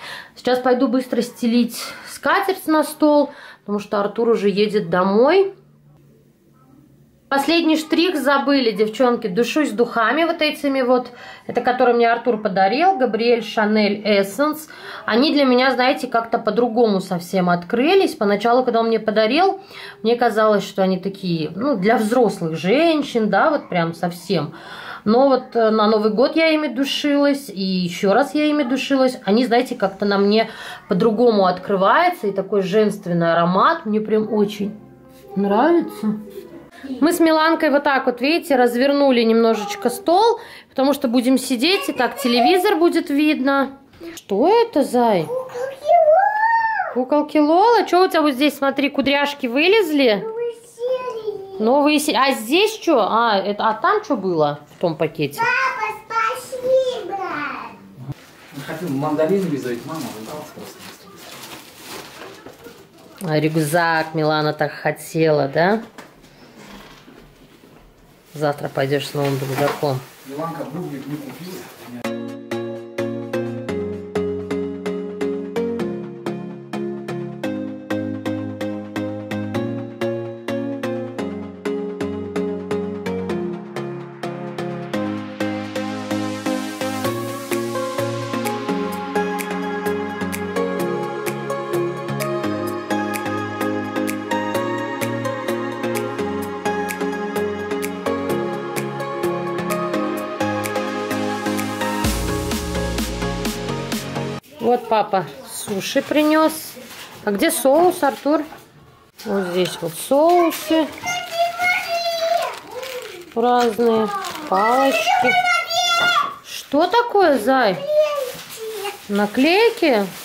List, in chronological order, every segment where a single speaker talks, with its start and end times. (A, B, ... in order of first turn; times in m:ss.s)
0:00.3-0:05.5 A
0:07.3-0:24.5 A
0:25.0-0:34.8 A
0:35.3-0:36.2 A
0:37.0-0:45.3 A
0:45.3-0:46.9 B
0:46.9-0:50.3 A
0:50.2-0:51.6 B
0:51.6-0:55.5 A
0:55.4-0:57.8 B
0:58.5-1:01.3 C
1:03.2-1:05.8 A
1:08.3-1:10.0 A
1:10.2-1:12.0 C
1:44.6-1:48.4 A
1:49.2-1:50.9 A
1:53.3-1:55.4 A
1:56.4-1:57.9 A
1:58.3-1:58.9 B
1:59.1-2:00.1 A